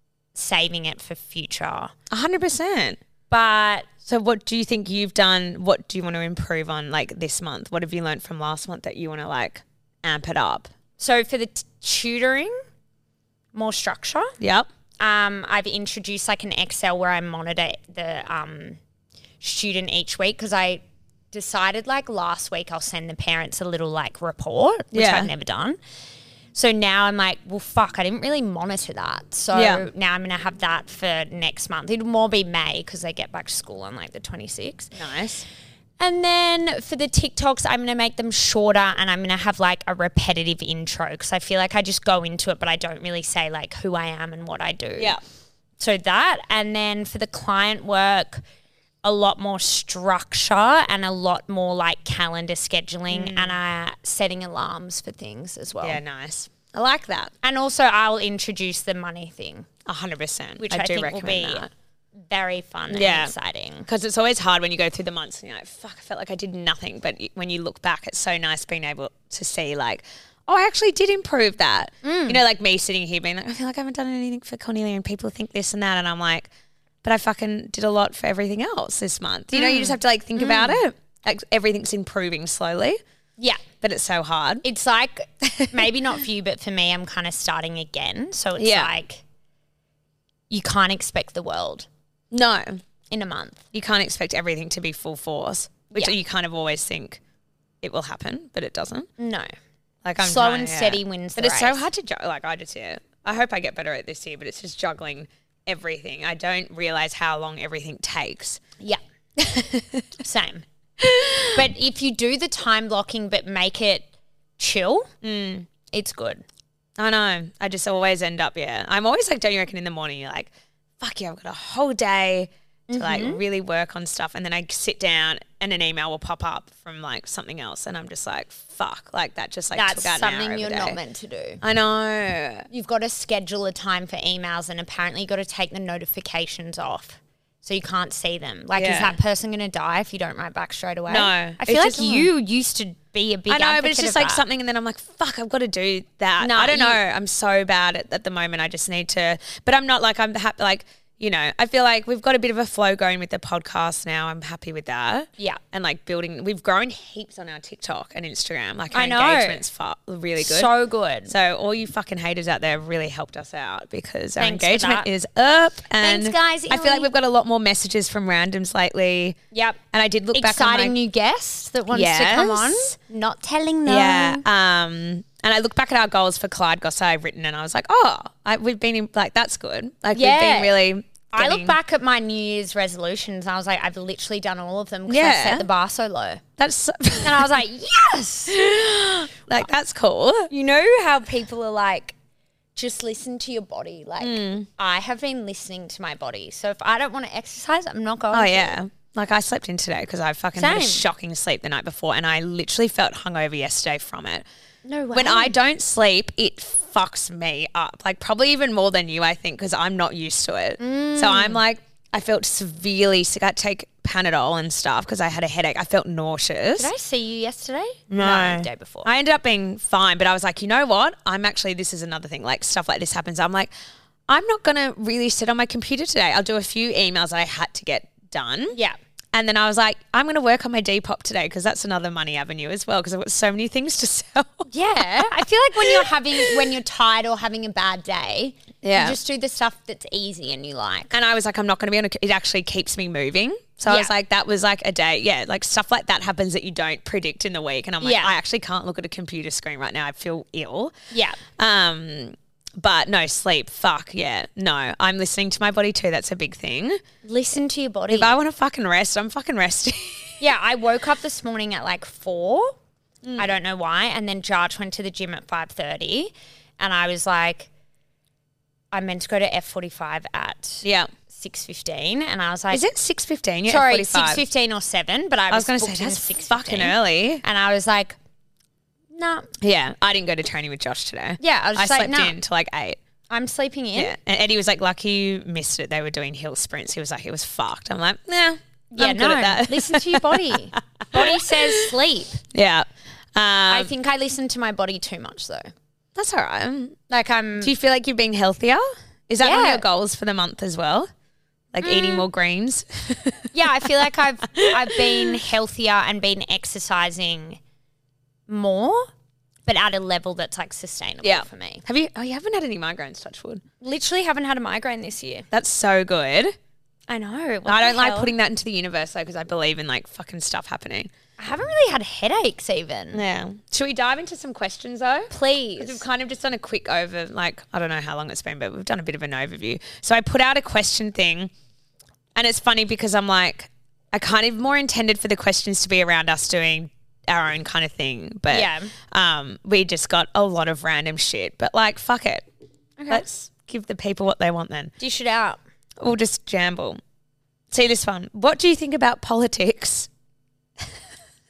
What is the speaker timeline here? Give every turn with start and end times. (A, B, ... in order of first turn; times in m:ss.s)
0:00.4-0:01.9 A
0:02.1-0:03.0 B
0:03.3-0:03.9 A
0:04.0-0:10.7 B
0:11.0-0:12.6 A
0:13.5-0:14.4 A
0:14.4-0:14.7 B
0:15.0-0:18.8 A
0:19.4-0:25.8 A
0:24.9-0:25.3 B
0:26.5-0:34.9 A
0:29.5-0:29.8 B
0:34.9-0:35.5 B
0:36.0-0:45.2 A
0:45.8-0:48.4 A
0:49.0-0:56.0 A
0:53.1-0:53.6 B
0:55.8-0:57.3 B
0:57.4-0:59.7 A
0:59.9-1:01.7 B
1:00.6-1:01.6 A
1:02.3-1:03.9 A
1:02.9-1:03.3 B
1:03.9-1:16.5 B
1:12.0-1:12.4 A
1:17.0-1:23.0 B
1:19.5-1:20.8 A
1:23.8-1:24.6 B
1:24.6-1:29.2 A
1:25.4-1:25.9 B
1:28.6-1:28.9 B
1:30.5-1:31.9 A
1:32.3-1:32.8 B
1:33.1-1:33.6 A
1:33.7-1:37.2 B
1:37.8-1:39.1 B
1:39.2-1:39.5 A
1:40.0-1:48.6 B
1:40.2-1:41.8 A
1:49.4-1:50.0 B
1:50.2-1:50.6 A
1:51.0-1:51.6 B
1:51.5-1:55.1 A
1:55.2-1:55.7 B
1:55.9-1:56.4 A
1:57.0-2:11.0 B
2:02.9-2:03.4 A
2:09.7-2:11.6 A
2:11.6-2:12.6 B
2:12.7-2:24.4 A
2:18.8-2:19.2 B
2:21.1-2:22.3 B
2:23.5-2:40.7 B
2:26.4-2:27.0 A
2:38.9-2:39.6 A
2:40.4-2:41.3 A
2:41.3-2:49.4 B
2:44.4-2:45.1 A
2:46.0-2:47.1 A
2:49.5-2:49.8 A
2:49.9-2:50.9 B
2:50.3-2:54.4 A
2:51.9-2:52.9 B
2:53.9-3:01.8 B
3:00.1-3:00.8 A
3:01.3-3:06.4 A
3:05.1-3:05.7 B
3:06.6-3:07.5 B
3:07.2-3:08.6 A
3:08.5-3:10.5 B
3:10.5-3:12.2 A
3:12.8-3:18.8 A
3:14.2-3:14.7 B
3:18.3-3:24.4 B
3:20.6-3:21.0 A
3:24.8-3:25.6 A
3:25.1-3:36.9 B
3:30.8-3:31.6 A
3:36.8-3:39.1 A
3:38.1-3:43.7 B
3:44.3-3:48.8 B
3:49.3-3:56.6 B
3:54.7-4:01.1 A
3:58.8-3:59.2 B
4:01.1-4:10.9 B
4:03.9-4:04.1 A
4:08.0-4:08.3 A
4:11.1-4:11.4 A
4:11.6-4:17.0 B
4:17.2-4:18.3 A
4:18.1-4:20.4 B
4:20.4-4:22.7 A
4:23.4-4:27.7 A
4:28.9-4:32.8 A
4:30.8-4:31.1 B
4:32.7-4:34.4 B
4:33.7-4:38.2 A
4:35.5-4:37.4 B
4:39.1-4:39.5 A
4:39.6-4:43.0 B
4:41.4-4:42.4 A
4:43.3-4:44.1 A
4:44.0-4:51.9 B
4:48.9-4:52.4 A
4:52.5-4:53.9 B
4:53.7-4:55.7 A
4:56.1-4:57.0 B
4:57.1-4:57.7 A
4:57.6-5:01.1 B
4:59.4-4:59.8 A
5:01.7-5:03.9 B
5:01.8-5:02.3 A
5:03.5-5:07.6 A
5:04.6-5:05.4 B
5:08.5-5:09.1 A
5:09.6-5:11.8 A
5:11.2-5:13.6 B
5:13.8-5:15.5 A
5:15.5-5:16.5 B
5:17.1-5:18.3 A
5:17.6-5:21.1 B
5:21.4-5:23.2 A
5:23.1-5:31.5 B
5:25.3-5:26.0 A
5:32.4-5:42.4 B
5:38.5-5:38.9 A
5:43.0-5:43.3 A
5:43.1-5:44.9 B
5:45.0-5:45.6 A
5:46.0-5:47.0 B
5:47.7-5:50.1 B